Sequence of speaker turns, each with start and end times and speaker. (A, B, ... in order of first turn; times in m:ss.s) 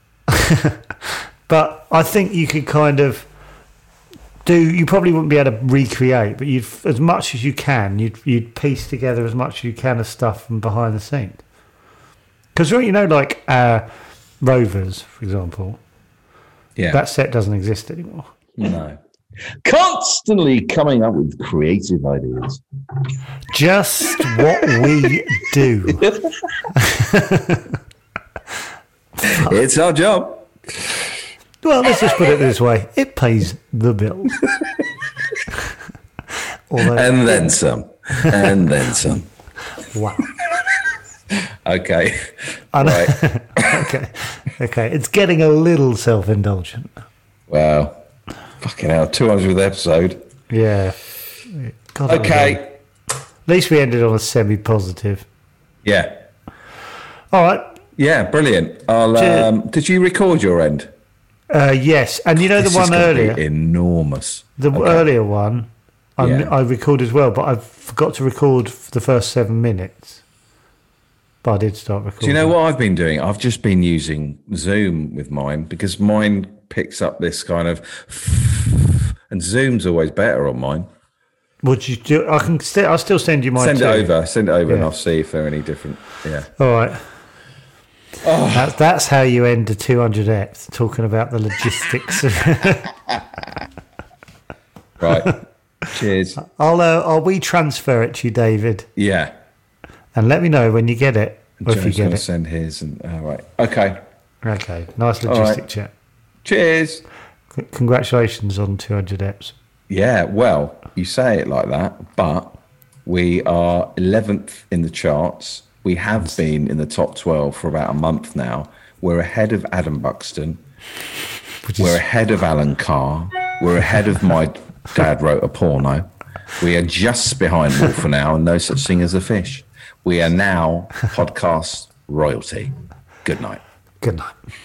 0:00.3-0:03.3 A
0:04.4-0:11.4 A
0:12.6-0:13.9 A
0:14.4-0:15.8 A
0:16.9-0:18.3 A
0:18.6-0:19.0 B
0:19.6-0:22.6 B
0:23.5-0:26.0 A
0:25.9-0:26.3 B
0:26.7-0:27.7 A
0:29.2-0:31.1 B
0:29.2-0:29.5 A
0:31.6-0:34.4 A
0:36.7-0:37.6 A
0:36.8-0:39.3 B
0:38.2-0:38.6 A
0:39.9-0:40.3 A
0:40.4-0:40.7 B
0:41.3-0:43.9 B
0:42.7-0:46.9 A
0:47.5-0:48.0 B
0:48.6-0:50.2 B
0:50.5-0:51.0 A
0:51.5-0:52.7 A
0:52.1-0:52.7 B
0:53.5-0:55.3 A
0:55.8-0:56.3 B
0:57.3-0:57.8 A
0:58.0-1:00.9 B
0:59.1-0:59.5 A
1:01.5-1:03.4 A
1:02.4-1:05.0 B
1:04.6-1:10.2 A
1:06.2-1:06.5 B
1:11.4-1:12.6 A
1:12.2-1:20.9 B
1:21.6-1:24.1 A
1:23.6-1:26.5 B
1:26.6-1:27.0 A
1:28.2-1:28.8 B
1:28.5-1:32.9 A
1:35.0-1:35.3 B
1:35.9-1:36.4 B
1:36.4-1:38.9 A
1:39.0-1:39.3 B
1:40.1-1:42.2 A
1:41.6-1:44.0 B
1:44.4-1:45.9 A
1:45.2-1:45.6 B
1:46.4-1:47.0 B
1:47.5-1:49.6 A
1:49.9-2:00.6 B
2:01.6-2:02.0 A
2:01.8-2:13.6 B
2:14.0-2:14.3 A